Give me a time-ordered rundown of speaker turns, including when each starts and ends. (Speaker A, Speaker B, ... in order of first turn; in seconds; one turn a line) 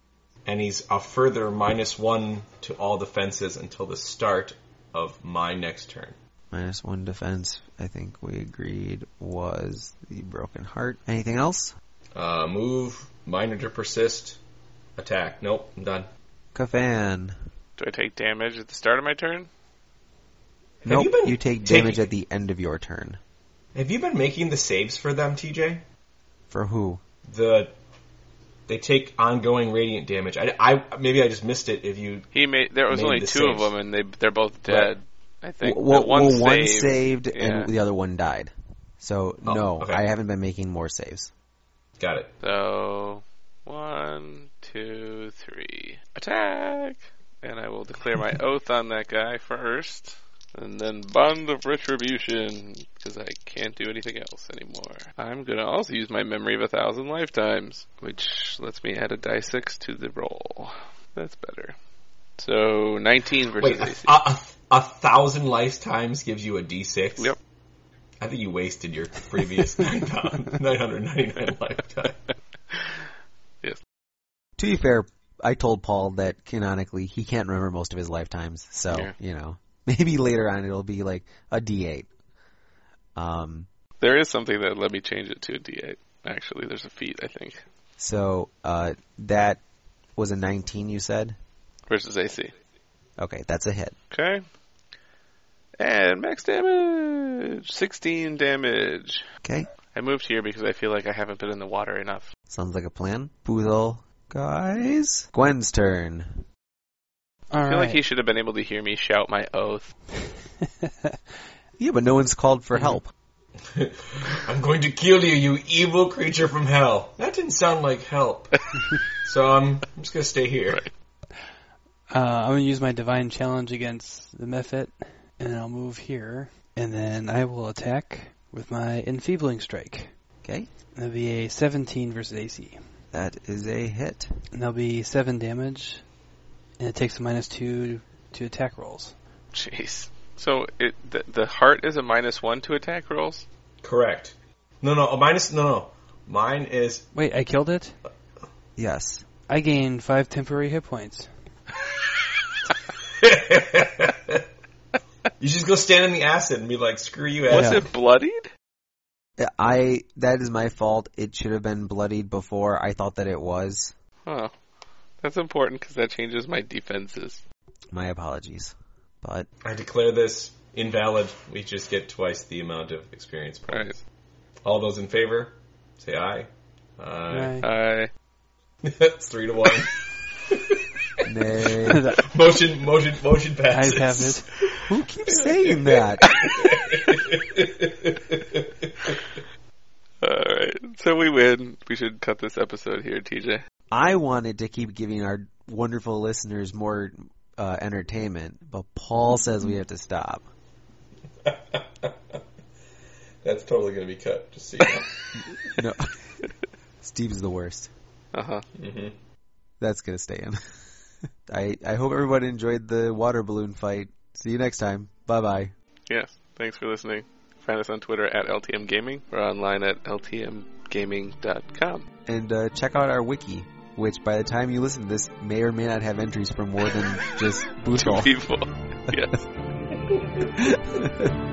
Speaker A: 0.4-6.2
Speaker B: 6.5-11.7
Speaker A: 12.1-14.4
Speaker A: 15.0-16.1
Speaker B: 16.5-17.3
Speaker C: 17.8-19.5
Speaker A: 20.8-22.0
Speaker B: 20.9-23.2
Speaker A: 23.7-25.8
Speaker B: 26.5-27.0
Speaker A: 27.2-27.7
Speaker A: 28.7-32.3
Speaker C: 32.3-37.7
Speaker A: 32.9-33.7
Speaker B: 35.6-41.3
Speaker A: 39.4-40.0
Speaker A: 42.0-42.3
Speaker C: 42.4-61.8
Speaker C: 62.4-64.1
Speaker A: 63.6-67.3
Speaker A: 68.2-72.2
Speaker B: 74.6-82.1
Speaker B: 83.2-83.7
Speaker C: 84.0-87.6
Speaker B: 88.0-89.6
Speaker B: 90.2-91.4
Speaker C: 91.9-92.5
Speaker B: 93.2-94.0
Speaker C: 94.1-94.4
Speaker C: 95.8-99.2
Speaker C: 99.9-102.3
Speaker B: 102.5-106.4
Speaker D: 107.5-108.0
Speaker C: 107.6-109.9
Speaker D: 110.8-111.1
Speaker B: 111.8-113.1
Speaker A: 113.6-118.5
Speaker A: 119.1-120.8
Speaker D: 122.1-130.1
Speaker B: 130.4-130.7
Speaker D: 130.9-132.8
Speaker B: 133.1-134.3
Speaker D: 134.5-136.0
Speaker D: 136.8-139.1
Speaker C: 139.5-143.4
Speaker A: 143.8-147.1
Speaker D: 147.1-147.9
Speaker B: 148.8-149.2
Speaker D: 149.5-151.3
Speaker A: 153.1-154.4
Speaker A: 155.4-157.9
Speaker C: 157.5-158.5
Speaker D: 157.5-157.8
Speaker B: 159.4-163.9
Speaker C: 164.2-164.5
Speaker C: 165.2-167.4
Speaker B: 167.9-169.5
Speaker A: 169.6-174.0
Speaker C: 173.7-174.0
Speaker A: 174.6-177.6
Speaker D: 177.3-177.7
Speaker C: 177.6-178.1
Speaker A: 178.8-181.2
Speaker B: 181.2-182.0
Speaker D: 181.9-182.3
Speaker A: 182.2-184.7
Speaker D: 183.7-184.5
Speaker B: 184.9-186.2
Speaker C: 185.3-186.7
Speaker A: 185.6-189.2
Speaker C: 190.2-193.6
Speaker B: 193.9-200.5
Speaker A: 201.4-202.4
Speaker A: 203.4-205.7
Speaker B: 205.7-206.1
Speaker B: 207.0-207.9
Speaker C: 208.3-208.6
Speaker A: 208.8-209.1
Speaker B: 209.8-210.6
Speaker B: 211.5-215.7
Speaker C: 216.1-222.0
Speaker B: 222.2-228.3
Speaker C: 227.3-229.3
Speaker B: 230.6-231.3